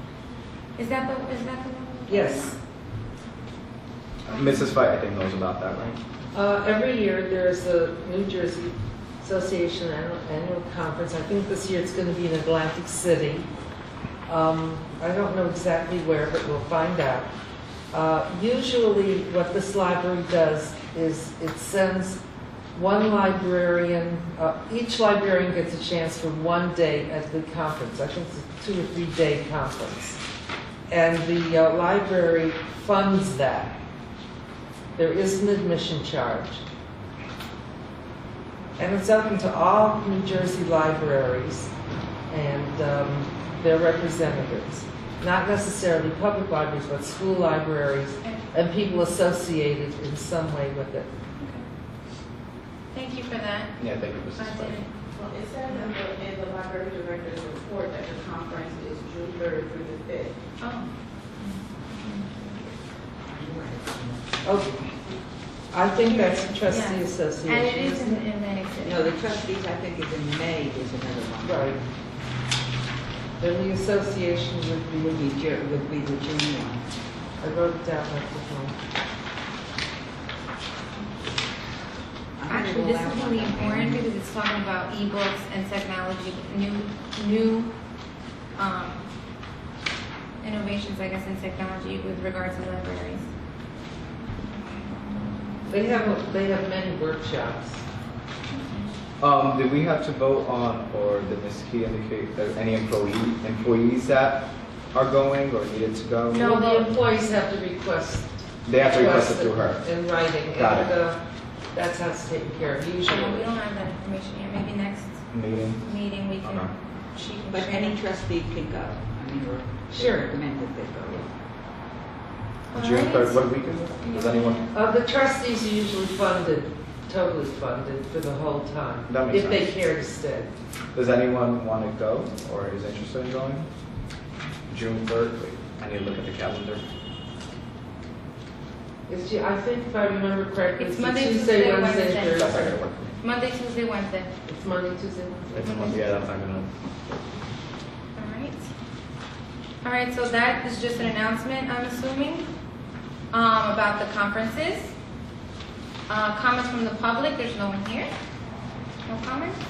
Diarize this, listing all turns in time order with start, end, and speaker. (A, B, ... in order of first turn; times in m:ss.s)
0:00.8-0:02.5 A
0:02.1-0:02.6 B
0:04.3-0:04.7 A
0:04.3-0:06.0 C
0:06.3-0:13.5 B
0:14.3-0:17.3 B
0:17.9-0:22.2 B
0:22.7-0:30.2 B
0:30.9-0:33.7 B
0:35.0-0:36.6 B
0:38.8-0:41.7 B
0:42.3-0:51.1 B
0:48.2-0:49.0 A
0:51.4-0:51.6 A
0:52.9-0:53.8 A
0:53.8-0:54.8 C
0:54.3-0:56.0 A
0:57.9-1:00.0 D
1:00.6-1:02.6 A
1:03.3-1:04.8 E
1:04.4-1:04.7 B
1:05.7-1:08.2 B
1:06.0-1:09.2 A
1:08.8-1:11.8 E
1:11.4-1:11.8 B
1:13.4-1:15.2 B
1:15.0-1:16.8 E
1:17.4-1:18.8 B
1:22.4-1:24.0 E
1:22.5-1:27.7 A
1:28.6-1:29.0 A
1:30.4-1:33.3 A
1:35.7-1:37.8 B
1:38.5-1:38.9 A
1:39.2-1:46.6 C
1:46.3-1:46.9 A
1:46.4-1:51.2 B
1:48.6-1:49.8 C
1:50.5-1:50.9 C
1:51.7-1:53.5 B
1:53.0-1:55.2 A
1:55.3-1:56.7 C
1:55.8-1:58.0 A
1:57.5-2:01.3 E
1:59.9-2:00.4 B
2:02.7-2:03.4 A
2:02.7-2:04.7 C
2:04.0-2:04.7 A
2:04.7-2:10.5 B
2:09.1-2:09.7 C
2:10.9-2:13.7 C
2:14.7-2:16.8 C
2:19.1-2:22.8 B
2:20.8-2:22.6 A
2:22.3-2:23.2 C
2:23.2-2:24.3 A
2:24.5-2:26.0 B
2:25.6-2:26.7 C
2:25.6-2:26.2 A
2:28.2-2:28.7 A
2:29.8-2:32.5 A
2:33.3-2:34.9 A
2:36.1-2:38.1 A
2:39.1-2:39.6 A